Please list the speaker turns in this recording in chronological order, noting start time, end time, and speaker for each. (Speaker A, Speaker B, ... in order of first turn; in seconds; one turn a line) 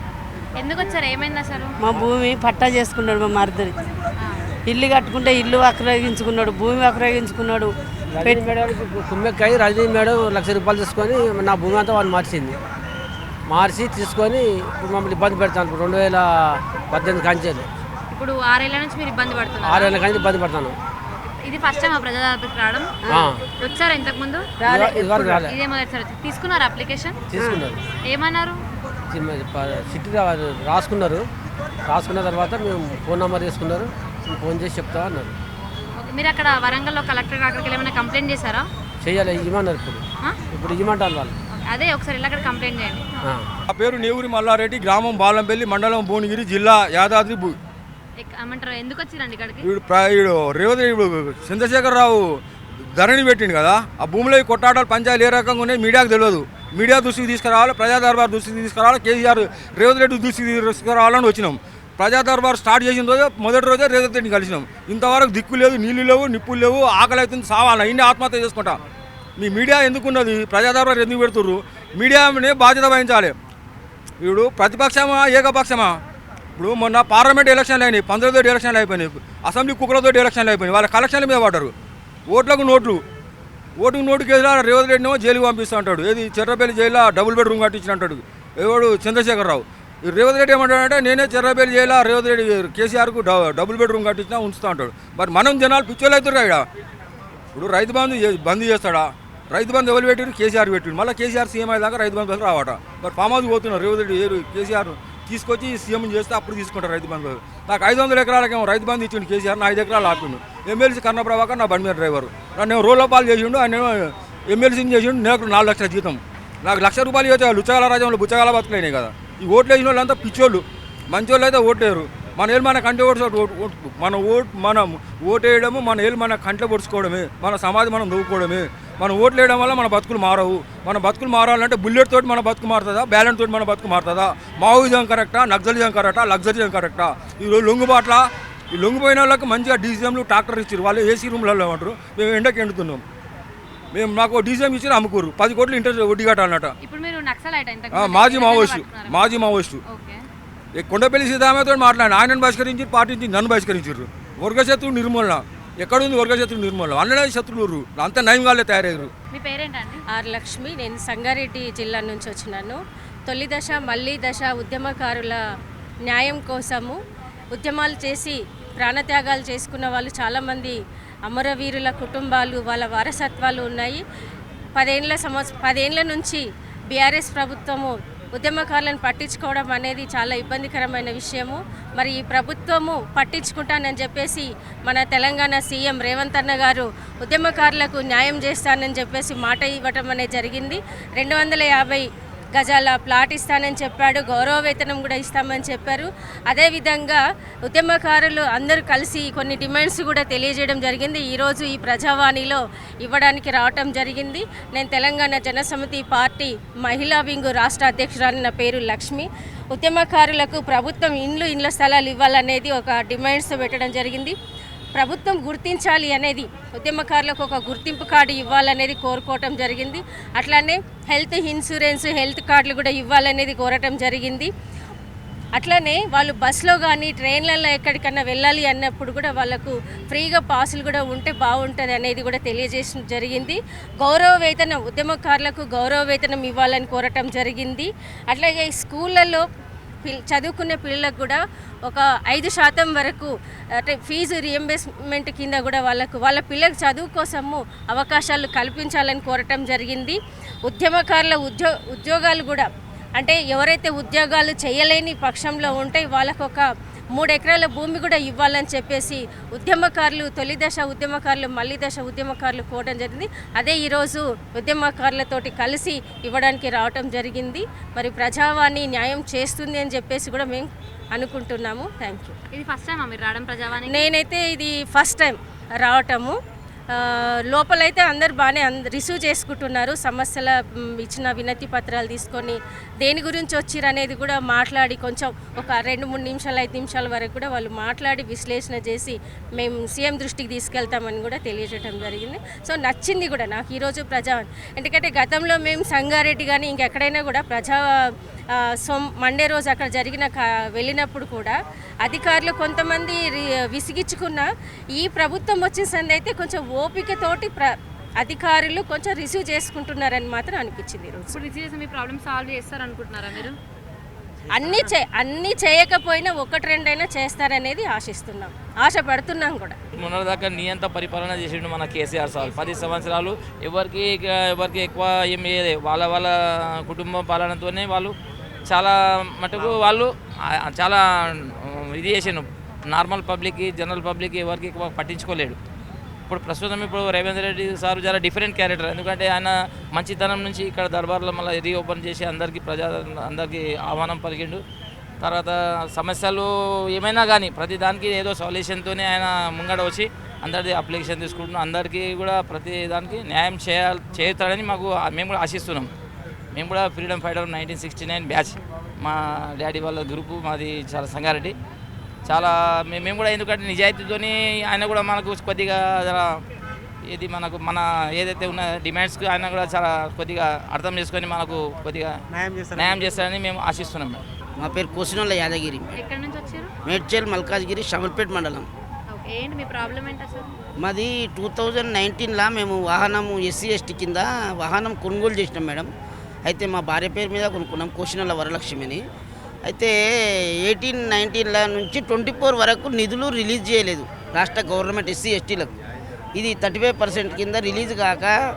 Speaker A: 0.6-1.7
Speaker B: 1.8-3.7
Speaker B: 4.7-7.7
Speaker C: 8.2-12.5
Speaker B: 8.2-8.4
Speaker C: 13.5-17.6
Speaker A: 18.1-20.1
Speaker C: 19.6-20.7
Speaker A: 21.2-22.9
Speaker C: 23.1-23.4
Speaker A: 23.6-24.4
Speaker C: 24.6-25.5
Speaker A: 25.3-27.2
Speaker C: 27.3-27.8
Speaker A: 28.1-28.6
Speaker C: 29.1-31.2
Speaker C: 31.9-35.3
Speaker A: 36.0-38.7
Speaker C: 39.0-41.3
Speaker A: 41.5-43.0
Speaker D: 43.7-47.6
Speaker A: 48.2-49.6
Speaker D: 49.6-68.8
Speaker D: 69.4-73.3
Speaker D: 74.2-76.0
Speaker D: 76.6-81.7
Speaker D: 82.3-83.0
Speaker D: 83.8-96.6
Speaker D: 97.5-143.0
Speaker D: 143.9-146.7
Speaker A: 146.8-149.2
Speaker D: 147.9-149.8
Speaker A: 149.8-150.2
Speaker D: 150.8-159.1
Speaker A: 159.3-160.0
Speaker E: 160.1-165.4
Speaker E: 166.0-167.0
Speaker E: 167.5-174.0
Speaker E: 174.8-214.3
Speaker E: 214.9-224.5
Speaker E: 225.5-239.4
Speaker E: 240.0-272.3
Speaker A: 272.5-274.1
Speaker E: 273.9-276.4
Speaker E: 276.9-311.4
Speaker A: 311.3-313.6
Speaker E: 314.5-319.8
Speaker F: 319.9-328.1
Speaker F: 328.7-335.6
Speaker F: 336.3-344.6
Speaker F: 345.2-355.9
Speaker F: 356.5-361.5
Speaker F: 362.2-366.3
Speaker F: 367.1-372.1
Speaker F: 372.7-374.2
Speaker G: 374.6-375.9
Speaker A: 375.9-376.7
Speaker G: 376.9-378.7
Speaker A: 379.1-380.5
Speaker G: 380.8-385.9
Speaker G: 386.4-389.0
Speaker G: 389.7-395.7
Speaker G: 396.4-398.3